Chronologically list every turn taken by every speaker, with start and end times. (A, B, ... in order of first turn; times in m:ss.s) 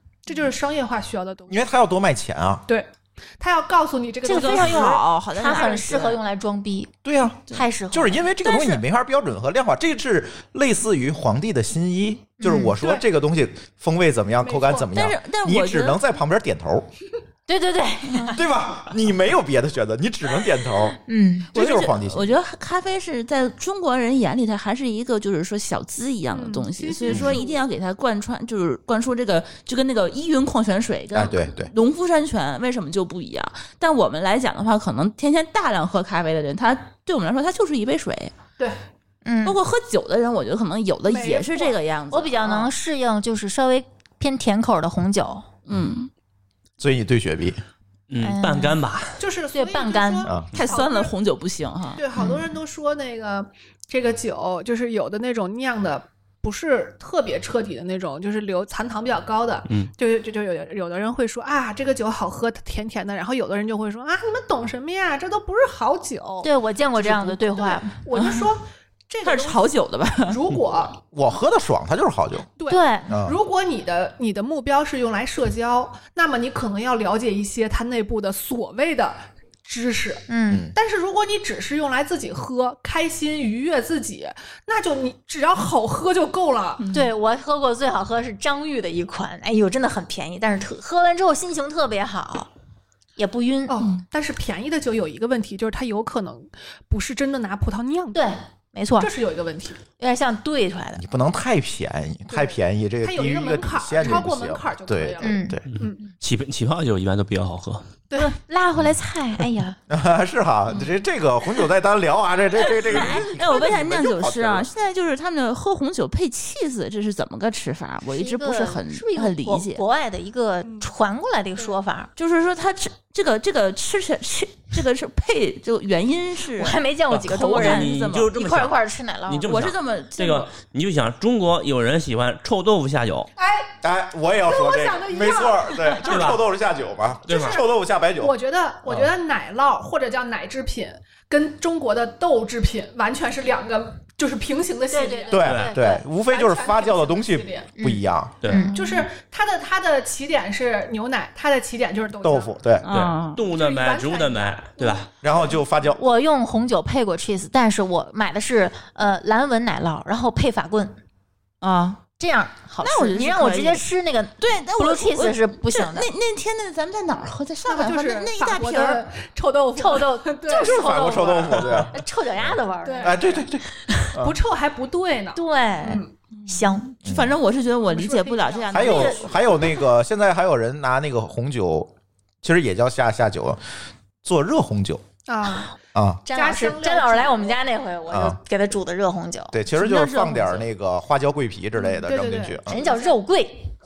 0:00.3-0:01.6 A
0:01.5-0:02.6 B
0:02.7-0:05.0 A
0:04.2-0:06.2 C
0:04.2-0:06.9 D
0:07.0-0:16.9 B
0:07.5-0:08.5 D
0:12.4-0:12.7 D
0:12.8-0:13.0 A
0:14.4-0:14.9 A
0:14.9-0:16.0 C
0:17.5-0:18.4 D
0:18.3-0:21.0 B
0:21.0-0:21.5 D
0:21.5-0:22.3 B
0:21.5-0:38.3 C
0:26.3-0:27.6 A
0:27.1-0:27.3 E
0:31.1-0:31.7 B
0:39.2-0:39.6 D
0:39.4-0:42.7 C
0:41.0-0:41.8 A
0:42.1-0:45.4 D
0:45.6-0:46.1 C
0:46.8-0:47.6 B
0:48.1-0:49.2 E
0:48.2-0:48.8 D
0:49.2-0:51.1 A
0:49.5-0:50.3 D
0:50.5-0:52.0 C
0:52.0-1:09.6 A
0:52.1-0:52.5 D
1:06.4-1:08.0 D
1:09.2-1:10.4 C
1:10.2-1:11.0 A
1:11.1-1:12.5 B
1:12.6-1:26.9 A
1:12.7-1:13.2 D
1:13.1-1:13.4 B
1:20.3-1:20.7 D
1:20.5-1:20.8 B
1:26.8-1:27.1 C
1:26.9-1:32.5 D
1:33.2-1:33.9 D
1:33.7-1:38.3 A
1:38.1-1:39.1 D
1:39.0-1:39.8 A
1:40.0-1:41.0 D
1:41.0-1:45.6 B
1:42.3-1:46.0 A
1:45.2-1:45.6 D
1:45.7-1:47.9 E
1:48.1-1:48.3 A
1:48.2-1:49.8 D
1:49.9-1:54.7 B
1:52.8-1:53.4 D
1:52.9-1:59.8 C
1:58.1-2:02.1 D
2:00.6-2:00.9 A
2:02.2-2:08.3 C
2:06.5-2:09.5 D
2:07.1-2:13.3 E
2:09.4-2:10.5 C
2:13.4-2:13.8 A
2:13.8-2:18.3 B
2:14.4-2:16.2 A
2:16.0-2:16.4 E
2:17.3-2:17.6 E
2:17.3-2:17.6 A
2:18.2-2:25.5 A
2:24.9-2:26.0 D
2:25.3-2:28.4 B
2:25.4-2:25.7 E
2:26.2-2:27.7 A
2:27.8-2:29.0 D
2:28.4-2:28.7 E
2:28.6-2:32.5 A
2:32.2-2:33.0 B
2:32.8-2:33.4 C
2:32.9-2:35.1 E
2:33.4-2:35.1 A
2:35.2-2:36.0 B
2:36.0-2:41.0 D
2:41.6-2:42.0 C
2:42.2-2:46.1 D
2:42.8-2:43.8 C
2:44.4-2:49.0 C
2:47.6-2:51.9 A
2:49.8-2:53.4 D
2:50.5-2:52.0 B
2:52.8-2:53.2 A
2:53.0-2:54.4 B
2:54.2-2:56.1 A
2:55.3-2:56.9 D
2:56.5-2:59.2 C
2:57.0-2:57.3 B
2:57.9-2:59.5 A
2:58.7-3:03.6 B
2:58.8-2:59.2 D
3:04.2-3:05.0 B
3:05.3-3:05.7 A
3:05.9-3:06.2 B
3:06.2-3:09.6 D
3:06.3-3:07.6 A
3:08.1-3:08.4 B
3:09.5-3:12.8 B
3:09.7-3:10.6 C
3:11.8-3:13.2 A
3:12.7-3:13.7 D